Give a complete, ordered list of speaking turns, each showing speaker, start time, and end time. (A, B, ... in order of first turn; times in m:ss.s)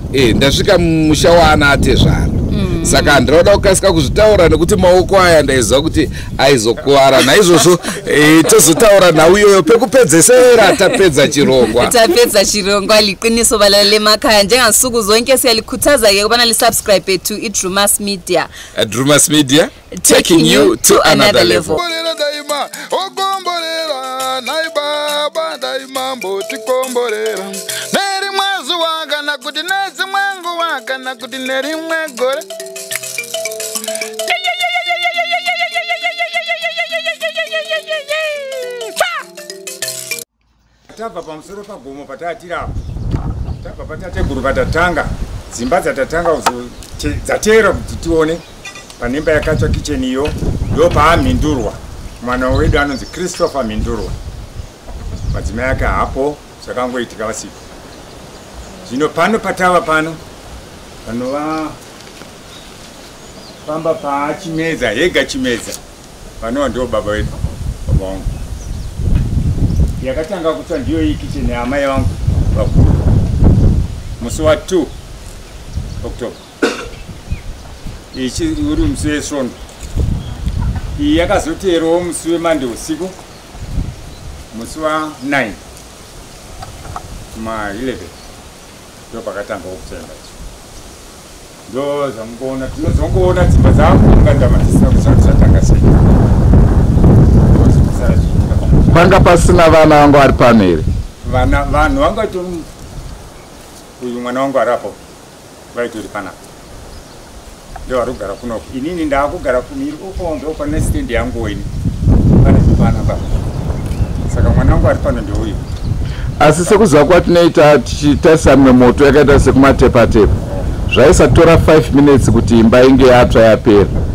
0:00.1-0:11.9 A
0:02.5-0:03.2 B
0:11.7-0:18.5 B
0:18.8-0:21.8 A
0:19.9-0:21.8 B
0:21.8-0:32.4 C
0:40.9-0:42.7 D
0:43.6-0:48.4 D
0:49.0-0:54.2 D
0:55.3-0:57.6 D
0:58.9-1:00.2 D
1:01.0-1:01.8 D
1:03.6-1:05.8 D
1:06.4-1:07.4 D
1:07.9-1:08.3 D
1:10.0-1:13.1 D
1:14.2-1:14.9 D
1:16.0-1:16.4 D
1:18.1-1:19.6 D
1:21.0-1:23.2 D
1:24.5-1:25.6 D
1:27.4-1:28.1 D
1:29.1-1:30.4 D
1:31.7-1:36.2 D
1:37.5-1:39.2 D
1:38.9-1:40.9 A
1:41.2-1:42.7 D
1:44.0-1:45.0 D
1:45.7-1:46.4 D
1:47.9-1:51.7 D
1:52.4-1:53.3 D
1:54.3-1:55.6 D
1:56.4-2:00.3 A
1:56.5-1:56.8 D
2:00.9-2:03.9 A